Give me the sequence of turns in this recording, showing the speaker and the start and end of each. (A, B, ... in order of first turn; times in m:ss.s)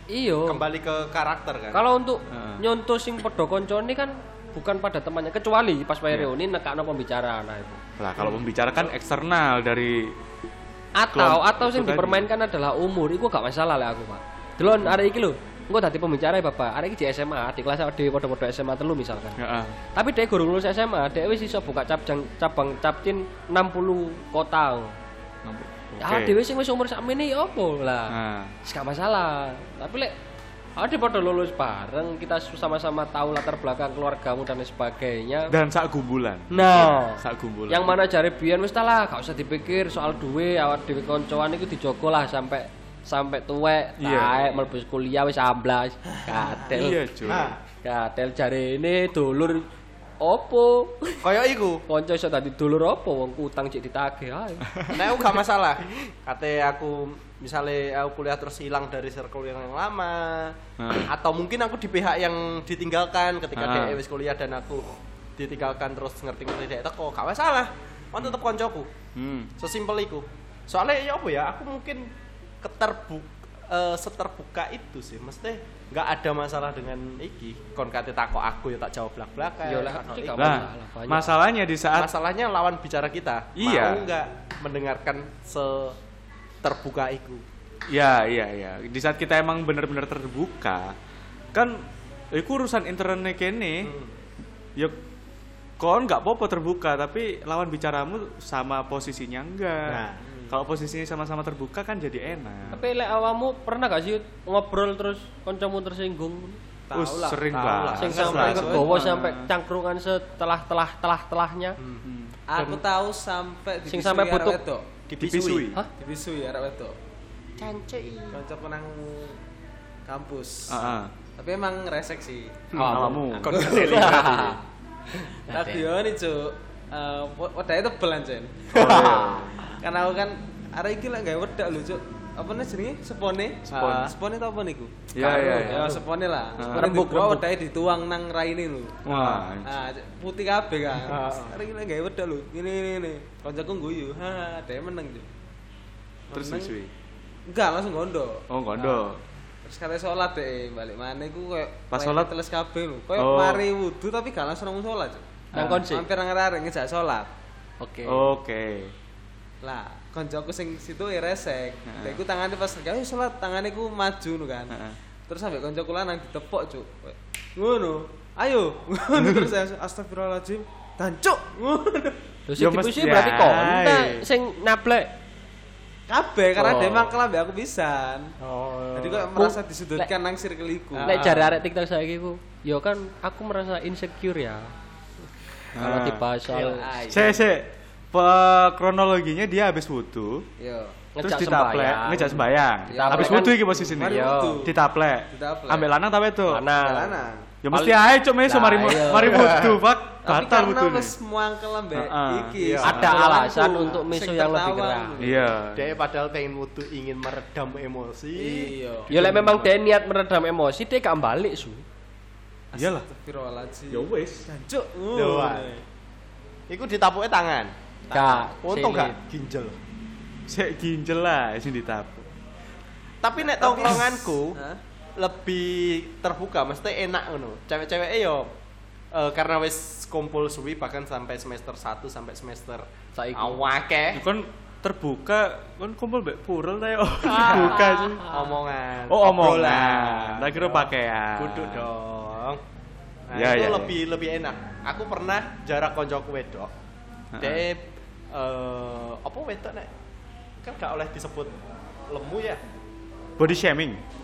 0:00.1-0:00.6 A
0:00.4-0:01.8 B
0:01.7-0:07.8 A
0:02.3-0:02.6 C
0:08.0-0:10.1 C
0:11.0-0:19.4 A
0:11.1-0:12.3 C
0:19.4-0:19.8 C
0:19.9-0:24.9 A
0:25.4-0:26.4 C
0:26.0-0:30.1 A
0:28.1-0:28.5 C
0:30.8-0:35.5 A
0:35.5-0:37.9 C
0:36.5-0:47.0 A
0:44.0-0:44.5 C
0:46.5-0:47.6 C
0:47.2-0:47.6 B
0:47.8-0:49.6 A
0:50.2-0:51.2 A
0:51.2-0:51.8 B
0:51.9-0:55.0 A
0:54.9-1:04.8 B
1:00.8-1:01.1 C
1:03.6-1:04.0 C
1:05.4-1:08.9 B
1:09.2-1:09.5 C
1:09.6-1:12.0 B
1:12.6-1:20.7 B
1:19.6-1:21.3 A
1:20.4-1:22.1 C
1:21.9-1:26.0 B
1:23.6-1:24.0 C
1:26.6-1:27.4 B
1:27.9-1:30.9 C
1:31.5-1:33.9 C
1:33.8-1:34.1 B
1:35.8-1:42.8 C
1:39.8-1:40.2 B
1:40.3-1:40.5 D
1:42.7-1:46.6 A
1:46.9-1:48.8 D
1:46.9-1:49.5 C
1:47.5-1:48.9 B
1:48.0-1:51.8 A
1:51.8-1:52.0 B
1:52.0-1:52.8 C
1:52.5-1:54.9 D
1:53.9-1:54.6 A
1:55.1-1:55.7 B
1:55.1-1:55.8 C
1:56.0-1:57.0 D
1:57.6-1:58.4 B
1:58.3-1:59.4 D
2:00.0-2:02.8 D
2:00.7-2:01.1 C
2:02.7-2:04.5 B
2:02.8-2:04.6 A
2:02.8-2:04.5 C
2:03.4-2:04.2 D
2:05.2-2:05.9 A
2:05.5-2:25.3 D
2:08.7-2:09.5 C
2:08.7-2:09.5 B
2:13.6-2:14.1 C
2:15.1-2:15.9 C
2:15.2-2:16.0 A
2:16.6-2:17.0 C
2:16.6-2:17.4 A
2:19.0-2:19.7 C
2:21.0-2:21.6 B
2:26.3-2:26.8 D
2:26.3-2:26.9 C
2:27.5-2:37.3 D
2:28.5-2:29.2 C
2:31.9-2:32.3 C
2:33.2-2:33.6 C
2:35.5-2:35.8 C
2:35.5-2:36.0 A
2:37.8-2:38.3 A
2:38.0-2:38.9 C
2:39.6-2:44.8 D
2:41.9-2:42.2 C
2:44.7-2:45.0 C
2:45.3-2:52.2 D
2:52.5-2:55.1 A
2:52.6-2:54.2 C
2:56.1-2:58.3 D
2:56.6-2:57.1 A
2:58.4-2:59.4 B
2:58.9-3:01.2 D
2:59.4-3:00.1 A
3:00.9-3:01.5 B
3:01.0-3:04.6 A
3:05.7-3:06.8 A
3:05.7-3:06.2 C
3:06.5-3:07.4 D
3:07.1-3:10.4 C
3:10.6-3:11.0 D
3:11.1-3:14.6 A
3:11.2-3:16.6 C
3:12.9-3:14.7 D
3:15.3-3:15.9 D
3:16.5-3:17.1 A
3:16.8-3:17.5 D
3:17.6-3:21.1 C
3:17.7-3:19.6 A
3:19.2-3:19.8 B
3:20.2-3:25.6 D
3:21.9-3:23.1 C
3:22.6-3:22.9 B
3:22.8-3:25.2 A
3:25.2-3:25.9 C
3:25.7-3:29.7 B
3:28.4-3:29.1 D
3:29.1-3:31.8 A
3:32.7-3:35.8 D
3:32.7-3:33.1 C
3:33.9-3:34.5 C
3:35.1-3:35.8 B
3:36.7-3:39.8 B
3:38.1-3:39.2 A
3:38.1-3:38.4 D
3:40.5-3:42.2 C
3:43.2-3:44.6 B
3:43.4-3:44.8 D
3:45.2-3:48.5 B
3:49.1-3:52.8 B
3:53.2-3:53.6 A
3:53.3-3:54.2 B
3:54.1-3:58.2 C
3:57.2-3:58.5 A
3:58.3-4:02.6 B
3:59.1-4:01.8 C
4:03.3-4:06.7 B
4:03.3-4:03.9 C
4:07.3-4:07.6 C
4:07.4-4:09.9 B
4:10.6-4:11.5 B
4:12.1-4:12.6 B
4:13.4-4:14.0 C